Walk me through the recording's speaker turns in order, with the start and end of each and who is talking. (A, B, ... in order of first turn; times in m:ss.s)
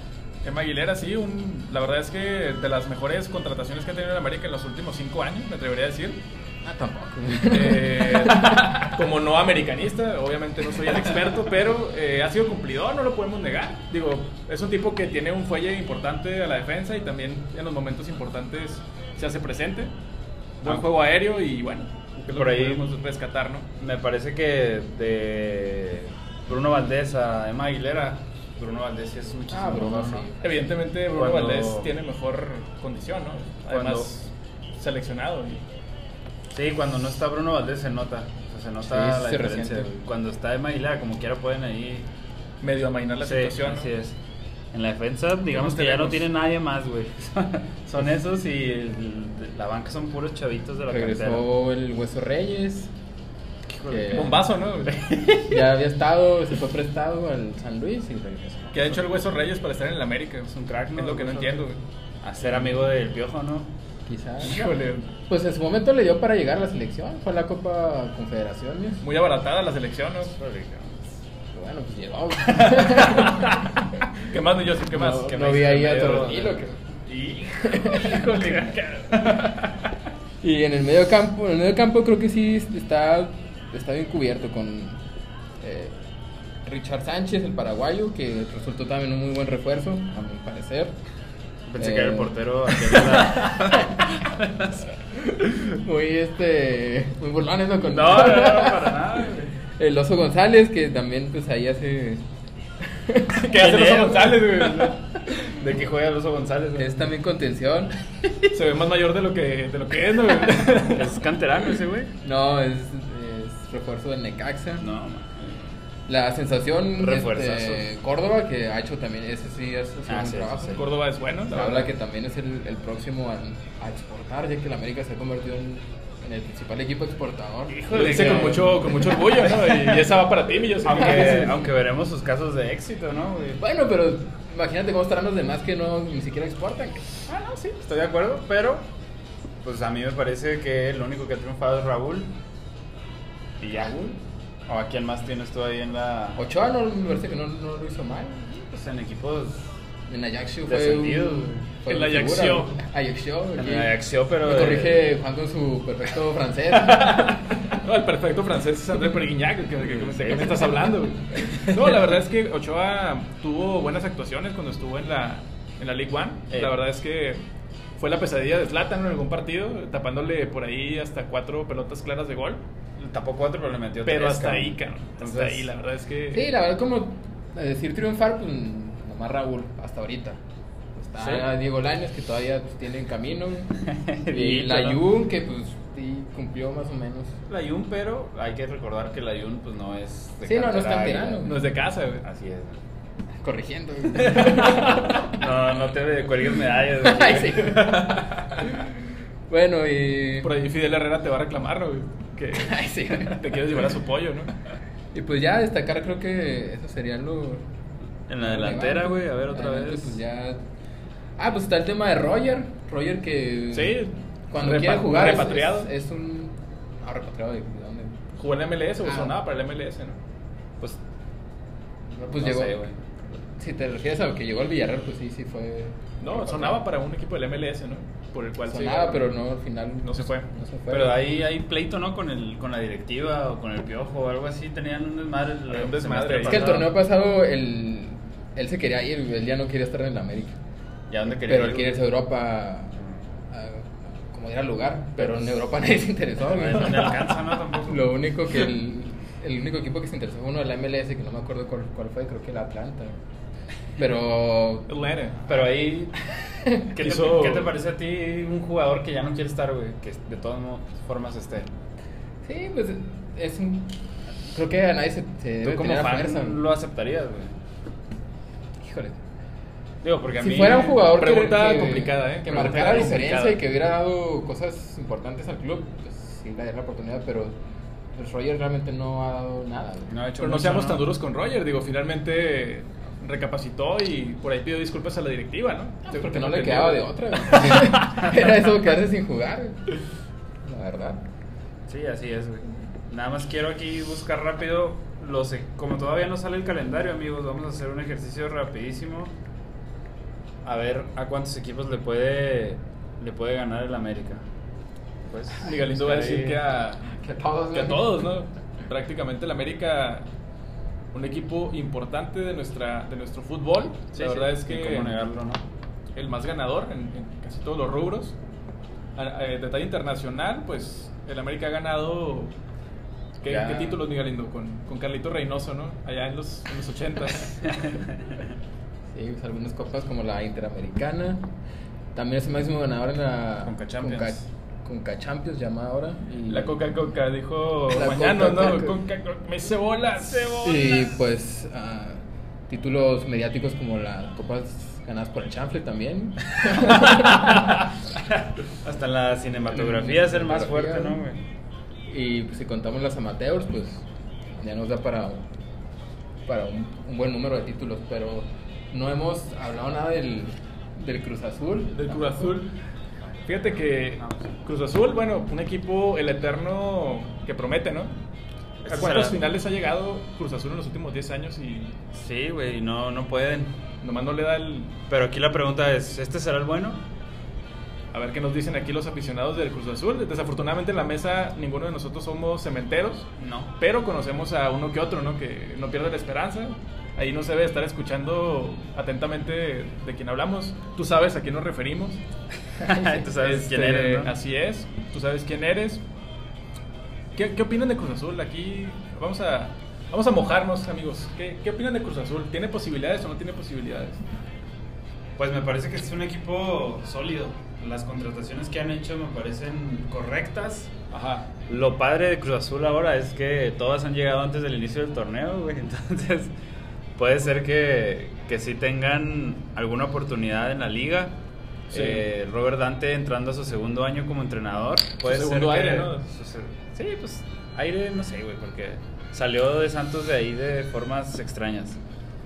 0:00.4-0:06.2 A
0:06.6-0:08.7 B
0:07.4-0:19.9 A
0:20.6-0:23.7 A
0:22.3-0:22.9 C
0:23.8-0:30.3 C
0:29.5-0:30.5 B
0:30.4-0:35.6 A
0:31.1-0:31.9 C
0:33.7-0:34.1 C
0:36.5-0:42.1 C
0:38.8-0:39.9 B
0:42.6-0:43.9 A
0:43.2-0:44.2 C
0:44.7-0:51.4 C
0:45.5-0:46.3 A
0:50.9-0:52.9 B
0:53.7-0:55.7 C
0:53.9-0:54.4 B
0:54.1-0:55.0 A
0:55.4-0:59.0 B
0:58.7-1:01.8 A
1:00.5-1:01.7 C
1:02.2-1:03.7 C
1:04.0-1:04.8 B
1:04.4-1:05.1 A
1:05.3-1:09.0 B
1:09.0-1:10.3 A
1:10.3-1:11.0 C
1:11.5-1:13.8 B
1:14.2-1:16.3 A
1:14.9-1:16.8 B
1:15.5-1:17.8 C
1:17.6-1:18.6 B
1:17.8-1:19.7 A
1:18.3-1:18.6 C
1:20.4-1:25.0 B
1:25.6-1:26.0 B
1:26.6-1:30.9 B
1:31.7-1:34.7 C
1:31.8-1:34.1 B
1:35.1-1:39.1 B
1:37.9-1:39.5 C
1:39.8-1:42.2 B
1:42.8-1:43.9 B
1:43.4-1:45.0 A
1:43.5-1:47.1 C
1:46.8-1:48.5 B
1:48.5-1:51.1 A
1:50.9-1:52.1 C
1:52.2-1:54.9 B
1:54.8-1:55.7 C
1:56.1-2:00.9 B
1:57.0-1:57.8 C
2:00.1-2:00.8 C
2:00.7-2:01.9 A
2:01.5-2:08.7 B
2:07.7-2:10.0 C
2:07.9-2:11.6 A
2:10.8-2:13.6 C
2:13.6-2:17.2 B
2:17.3-2:18.9 C
2:19.6-2:22.3 C
2:23.6-2:26.4 C
2:26.4-2:28.7 B
2:28.7-2:29.7 C
2:30.1-2:37.4 B
2:30.6-2:31.6 C
2:31.9-2:32.8 A
2:33.6-2:35.1 C
2:36.7-2:47.4 A
2:39.8-2:40.7 C
2:46.5-2:46.8 C
2:48.0-2:52.6 A
2:53.0-2:55.7 C
2:54.0-2:56.4 A
2:56.3-3:00.4 B
3:01.0-3:07.4 B
3:01.2-3:01.5 C
3:03.8-3:05.0 C
3:07.5-3:11.6 C
3:10.4-3:11.6 B
3:11.4-3:12.2 A
3:12.2-3:12.8 C
3:13.4-3:15.3 B
3:14.2-3:14.9 A
3:14.3-3:18.5 C
3:17.0-3:20.5 B
3:20.4-3:24.5 A
3:22.5-3:23.9 B
3:25.1-3:27.6 B
3:28.3-3:30.2 C
3:28.4-3:30.6 B
3:31.4-3:38.2 B
3:33.7-3:35.9 A
3:38.4-3:40.2 A
3:39.0-3:39.4 B
3:42.2-3:42.8 B
3:42.3-3:43.0 C
3:43.6-3:46.8 B
3:46.2-3:49.3 A
3:48.7-3:51.2 B
3:50.0-3:50.5 A
3:50.9-3:56.9 C
3:55.7-3:56.8 A
3:56.4-4:00.6 B
4:01.1-4:02.0 C
4:01.3-4:03.0 B
4:03.5-4:13.2 B
4:05.2-4:05.6 C
4:06.4-4:08.1 C
4:14.0-4:14.9 B
4:14.9-4:15.4 A
4:15.4-4:16.2 C
4:16.6-4:16.9 B
4:16.9-4:21.7 C
4:17.0-4:17.7 A
4:22.4-4:24.0 B
4:24.5-4:26.6 B
4:25.6-4:27.6 C
4:28.8-4:29.2 B
4:30.0-4:31.0 C
4:30.4-4:37.6 B
4:31.0-4:33.6 A
4:38.1-4:40.1 B
4:40.1-4:41.0 C
4:40.4-4:47.9 A
4:46.1-4:50.0 B
4:50.6-4:51.2 B
4:51.9-4:59.3 C
5:00.6-5:04.4 C
5:05.2-5:06.6 C
5:05.6-5:07.0 A
5:07.0-5:08.2 B
5:07.7-5:10.3 A
5:11.1-5:15.2 A
5:14.1-5:15.6 C
5:16.2-5:18.3 A
5:19.2-5:22.5 A
5:23.4-5:27.7 A
5:23.4-5:24.0 C
5:27.6-5:28.5 C
5:29.1-5:31.4 B
5:32.1-5:36.8 B
5:33.6-5:34.4 C
5:36.5-5:40.7 A
5:37.9-5:39.0 B
5:40.2-5:41.1 C
5:40.6-5:47.8 B
5:48.8-5:51.4 C
5:49.7-5:51.2 B
5:52.1-5:54.0 B
5:54.6-5:55.4 B
5:56.4-6:02.5 B
6:01.9-6:02.7 A
6:03.2-6:04.5 C
6:03.4-6:08.1 A
6:08.8-6:09.4 C
6:08.8-6:11.9 A
6:12.1-6:13.8 C
6:14.0-6:14.9 A
6:15.1-6:17.0 C
6:18.1-6:32.2 A
6:23.4-6:23.7 C
6:32.8-6:34.3 C
6:32.8-6:33.3 B
6:33.4-6:36.0 A
6:37.4-6:44.2 A
6:45.4-6:50.9 C
6:51.1-6:51.5 A
6:51.7-6:56.5 C
6:57.2-7:01.4 C
7:01.9-7:02.2 A
7:01.9-7:12.0 C
7:05.2-7:06.2 A